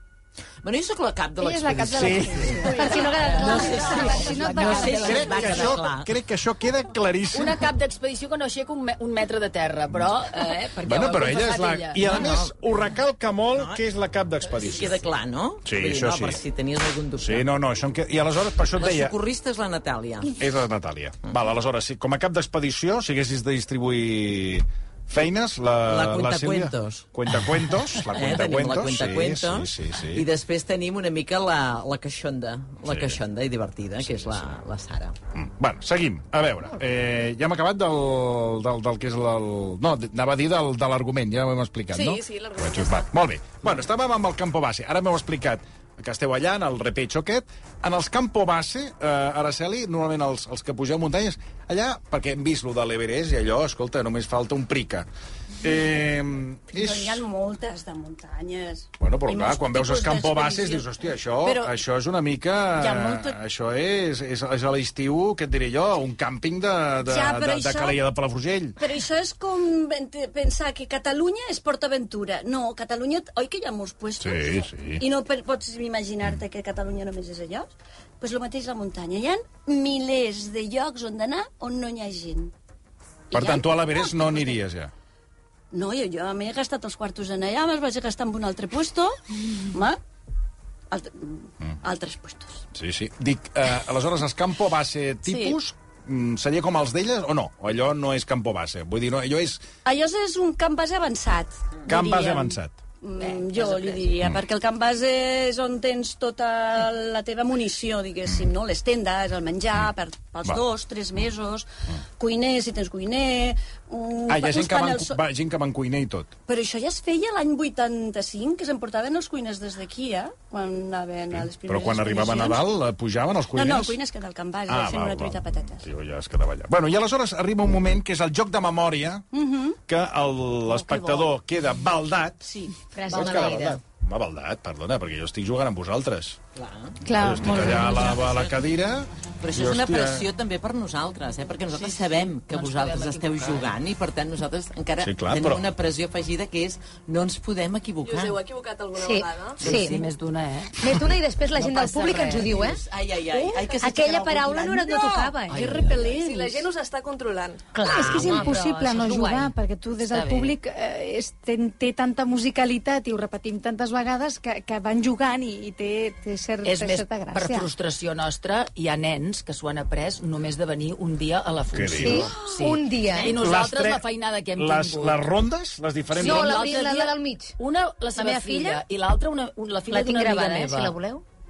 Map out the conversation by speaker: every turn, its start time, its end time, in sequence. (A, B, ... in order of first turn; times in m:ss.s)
0:00.6-0:06.1 A
0:01.4-0:05.6 B
0:01.9-0:02.5 C
0:02.6-0:03.8 D
0:03.4-0:05.7 E
0:04.7-0:07.7 C
0:07.3-0:12.0 E
0:10.8-0:15.0 C
0:12.0-0:12.5 A
0:13.5-0:13.8 A
0:14.6-0:17.4 A
0:15.6-0:16.4 C
0:17.2-0:19.1 C
0:18.8-0:20.4 A
0:20.4-0:30.3 C
0:25.9-0:27.0 A
0:28.0-0:35.1 A
0:32.8-0:33.2 C
0:34.2-0:34.4 C
0:35.3-0:55.1 C
0:41.9-0:43.1 F
0:55.6-0:57.2 C
0:56.7-1:00.9 D
0:59.0-1:08.8 C
1:01.4-1:01.7 D
1:02.8-1:03.4 D
1:07.0-1:08.0 D
1:08.8-1:22.5 D
1:14.2-1:15.0 C
1:23.3-1:24.6 D
1:23.3-1:24.9 C
1:25.7-1:30.0 D
1:30.9-1:32.6 D
1:32.7-1:39.6 C
1:39.8-1:51.7 D
1:41.9-1:42.8 C
1:43.2-1:44.2 E
1:52.2-1:55.2 D
1:54.3-1:56.3 C
1:56.5-2:02.6 D
2:01.3-2:04.0 C
2:03.5-2:05.9 D
2:04.7-2:09.2 C
2:09.3-2:09.8 D
2:09.9-2:12.4 C
2:10.6-2:11.3 D
2:12.4-2:12.8 D
2:12.9-2:13.8 G
2:13.1-2:16.4 C
2:16.5-2:17.0 A
2:17.0-2:18.2 B
2:17.2-2:20.2 C
2:18.0-2:18.6 A
2:19.4-2:28.4 A
2:21.7-2:23.7 E
2:25.0-2:25.6 C
2:28.0-2:29.6 F
2:29.0-2:30.1 G
2:29.6-2:32.6 E
2:30.8-2:32.8 G
2:32.5-2:34.8 A
2:33.4-2:33.6 D
2:33.8-2:35.8 G
2:34.7-2:36.6 D
2:35.5-2:36.0 E
2:35.9-2:37.6 F
2:37.7-2:39.5 G
2:37.8-2:47.7 B
2:40.0-2:40.5 E
2:46.6-2:55.2 E
2:51.7-2:52.3 C
2:52.0-2:53.4 G
2:53.2-2:56.6 C
2:56.1-3:01.0 E
2:56.2-2:57.6 G
2:58.2-2:58.8 G
2:59.9-3:01.2 G